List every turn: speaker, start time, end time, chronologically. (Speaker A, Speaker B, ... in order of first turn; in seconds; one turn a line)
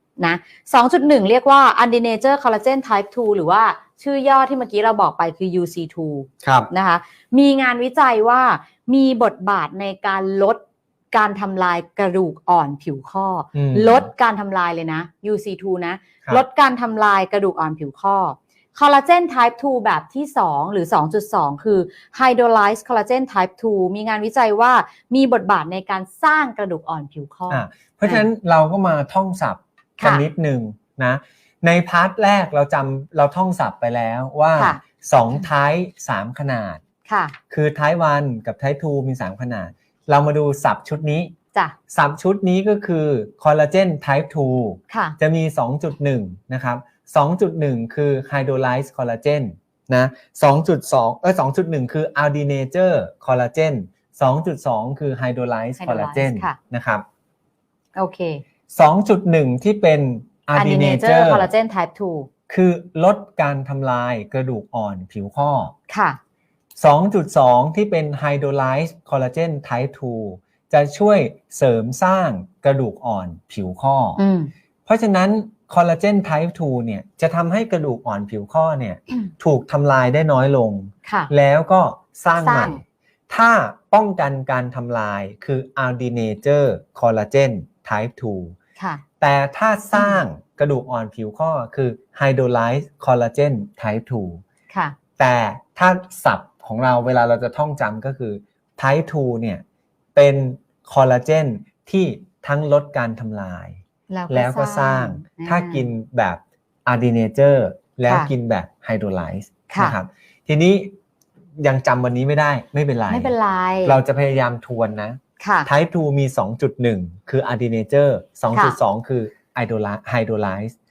Speaker A: 0.2-10.6
Speaker B: 6.4-6.7
Speaker A: 11.1-28.3
Speaker B: 13.5-14.1
Speaker B: 27.5-36.8
Speaker A: 30.0-30.2
Speaker A: 34.6-34.8
Speaker A: 37.1-37.4
Speaker B: 37.5-41.3
Speaker B: 41.9-57.0
Speaker A: 44.9-45.2
Speaker A: 55.8-56.6
Speaker A: 58.0-58.4
Speaker B: 58.7-61.5
Speaker A: 60.5-62.3
Speaker B: 62.5-65.7
Speaker A: 65.9-66.2
Speaker B: 66.8-74.2
Speaker A: 74.2-74.5
Speaker B: 74.9-88.6
Speaker A: 81.0-81.3
Speaker A: 82.4-82.8
Speaker A: 88.8-89.0
Speaker B: 89.2-94.4
Speaker A: 89.9-90.2
Speaker A: 94.7-95.0
Speaker B: 95.2-99.6
Speaker B: 100.2-110.9
Speaker A: 104.1-105.9
Speaker A: 109.7-110.0
Speaker B: 111.6-113.3
Speaker A: 113.1-114.0
Speaker B: 113.8-120.8
Speaker A: 115.4-115.7